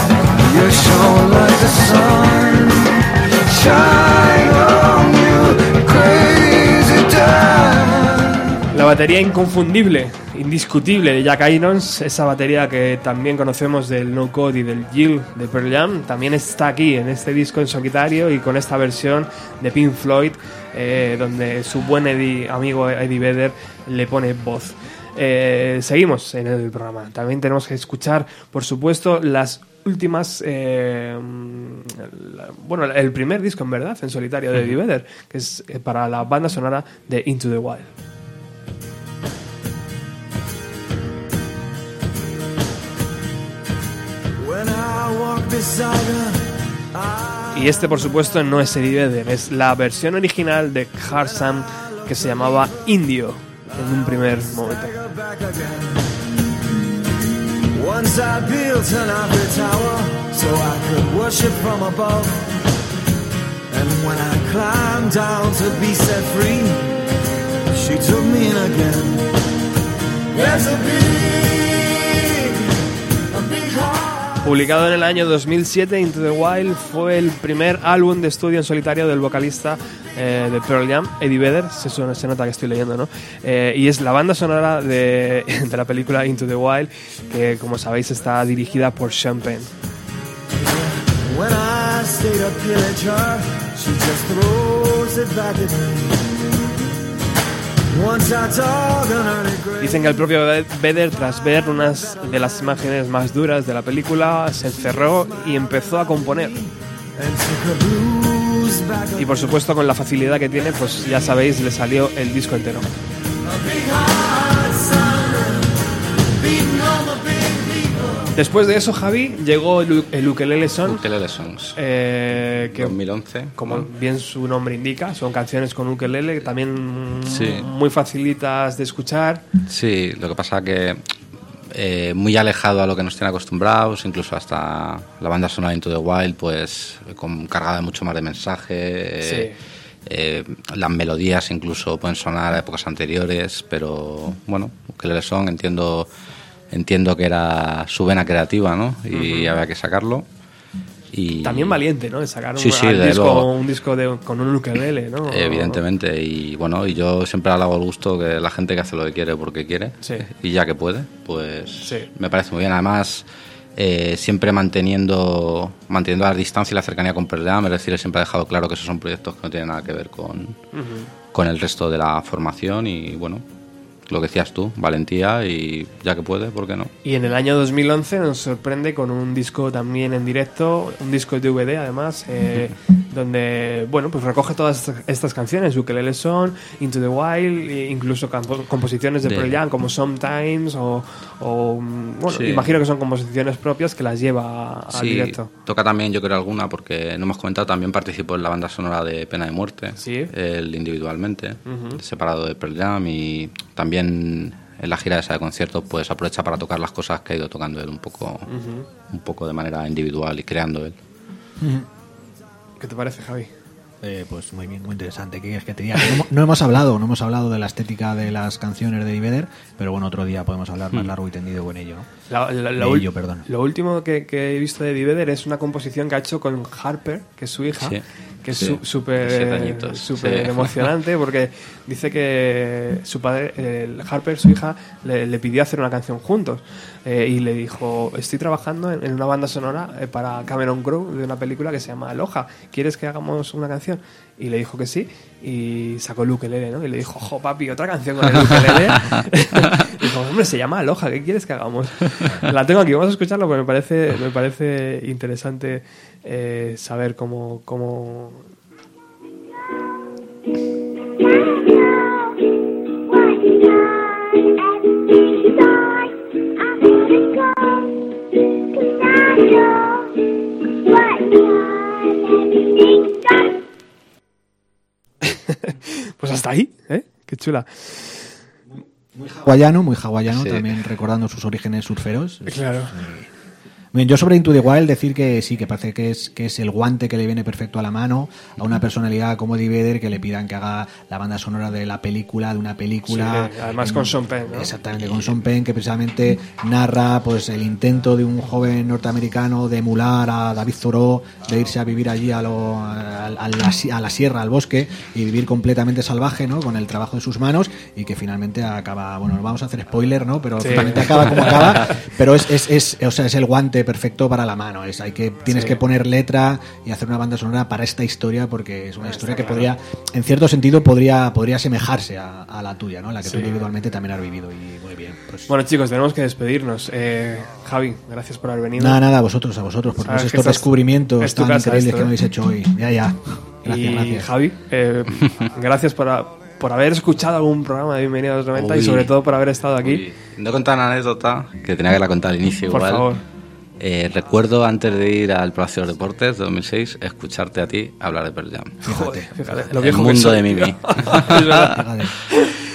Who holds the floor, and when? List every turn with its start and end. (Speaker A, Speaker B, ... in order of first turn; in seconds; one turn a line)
Speaker A: 0.4-8.5
Speaker B: 8.7-37.9
Speaker A: 44.4-47.9
Speaker B: 47.5-54.9
Speaker A: 52.0-52.7
Speaker A: 53.8-56.1
Speaker A: 57.7-62.5
Speaker A: 63.7-66.9
Speaker A: 67.7-69.3
Speaker A: 70.3-72.7
Speaker A: 73.3-74.4
Speaker B: 74.4-89.7
Speaker A: 90.5-96.6
Speaker A: 97.9-100.1
Speaker B: 99.8-106.6
Speaker A: 107.2-109.4
Speaker B: 109.2-112.9
Speaker A: 113.5-115.5
Speaker A: 116.4-118.2
Speaker B: 118.3-121.0
Speaker C: 120.9-121.8
Speaker B: 121.8-123.0
Speaker C: 122.7-123.9
Speaker B: 123.5-129.4
Speaker C: 127.2-127.7
Speaker C: 129.7-131.0
Speaker C: 131.7-139.5
Speaker B: 139.2-139.6
Speaker C: 140.1-146.1
Speaker C: 146.7-150.2
Speaker B: 149.1-149.5
Speaker C: 151.1-151.8
Speaker B: 151.4-155.8
Speaker C: 152.6-153.5
Speaker C: 155.3-170.6
Speaker B: 160.0-160.3
Speaker B: 161.8-162.1
Speaker B: 170.7-171.1
Speaker C: 171.3-173.4
Speaker C: 174.1-176.9
Speaker B: 177.0-195.5
Speaker C: 189.2-189.6
Speaker C: 192.3-192.7
Speaker C: 194.9-208.5
Speaker B: 200.0-200.3
Speaker B: 201.7-202.0
Speaker B: 208.5-208.8
Speaker C: 209.1-210.9
Speaker D: 211.6-211.9
Speaker B: 212.8-213.5
Speaker D: 214.0-222.1
Speaker B: 222.3-258.4
Speaker D: 222.8-223.4
Speaker C: 227.8-230.9
Speaker B: 275.2-278.3
Speaker D: 278.7-283.3
Speaker C: 280.3-280.7
Speaker B: 282.5-282.9
Speaker D: 283.9-325.5
Speaker B: 293.1-294.7
Speaker C: 295.0-295.3
Speaker B: 310.6-312.0
Speaker B: 315.5-315.8
Speaker B: 319.1-319.7
Speaker B: 323.2-323.5
Speaker B: 325.5-329.0
Speaker D: 328.8-334.3
Speaker B: 330.0-332.1
Speaker B: 333.7-340.0
Speaker C: 338.5-339.1
Speaker C: 339.8-343.1
Speaker B: 342.7-343.2
Speaker C: 343.8-348.8
Speaker D: 348.8-349.3
Speaker B: 348.8-352.6
Speaker C: 349.5-351.8
Speaker D: 351.2-352.1